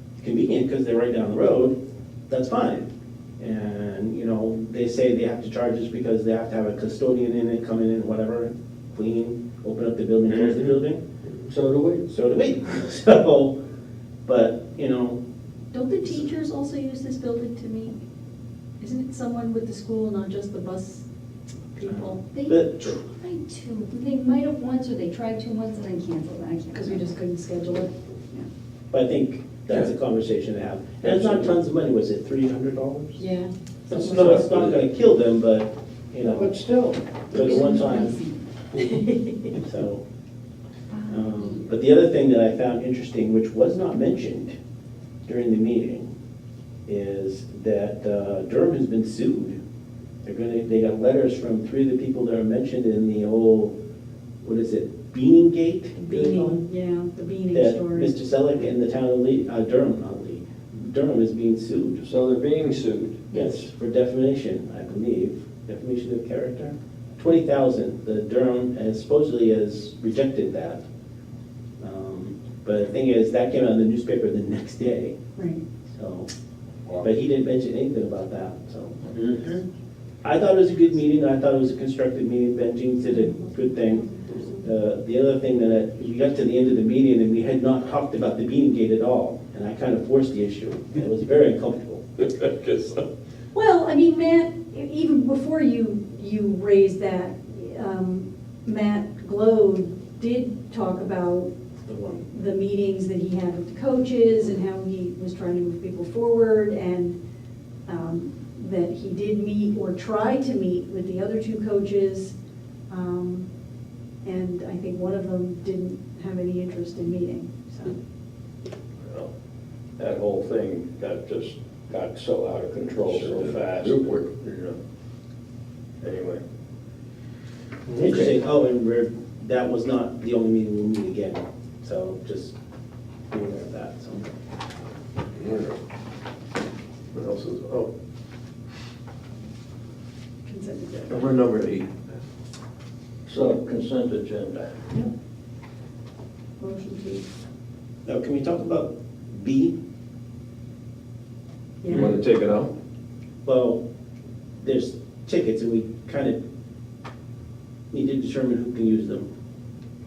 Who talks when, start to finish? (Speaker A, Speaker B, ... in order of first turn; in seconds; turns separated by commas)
Speaker A: 0.2-1.8, Speaker A: 2.3-11.0, Speaker B: 11.5-12.1, Speaker A: 12.1-13.6, Speaker A: 14.2-15.2, Speaker C: 15.7-17.9, Speaker C: 18.8-21.0, Speaker C: 21.8-22.2, Speaker A: 21.8-23.0, Speaker D: 22.3-27.1, Speaker C: 26.7-28.5, Speaker A: 28.9-33.2, Speaker E: 31.0-31.5, Speaker C: 33.2-33.5, Speaker E: 33.9-34.8, Speaker A: 33.9-36.5, Speaker A: 37.3-38.3, Speaker D: 37.3-38.3, Speaker A: 39.5-40.0, Speaker D: 40.9-41.6, Speaker A: 41.1-44.5, Speaker A: 45.2-46.1, Speaker A: 46.9-49.6, Speaker A: 50.2-53.7, Speaker A: 54.4-56.6, Speaker C: 56.1-58.1, Speaker A: 57.5-62.1, Speaker B: 62.0-63.5, Speaker A: 63.3-70.8, Speaker A: 71.8-75.2, Speaker C: 75.3-75.6, Speaker A: 75.9-76.3, Speaker A: 77.0-79.2, Speaker B: 79.1-79.6, Speaker A: 80.2-92.0, Speaker E: 92.2-93.0, Speaker C: 93.5-101.5, Speaker A: 101.8-102.3, Speaker C: 102.3-107.2, Speaker C: 107.8-112.3, Speaker C: 112.9-113.5, Speaker C: 114.2-118.0, Speaker B: 120.0-124.7, Speaker E: 123.0-124.7, Speaker B: 126.0-126.4, Speaker E: 127.9-128.3, Speaker A: 128.0-132.6, Speaker A: 133.3-134.3, Speaker E: 135.3-135.8, Speaker E: 137.1-137.9, Speaker C: 140.4-141.2, Speaker E: 141.1-142.2, Speaker B: 143.3-144.8, Speaker C: 146.6-147.2, Speaker A: 148.1-149.7, Speaker E: 151.9-152.7, Speaker A: 153.4-153.8, Speaker A: 154.6-156.4, Speaker A: 157.9-159.3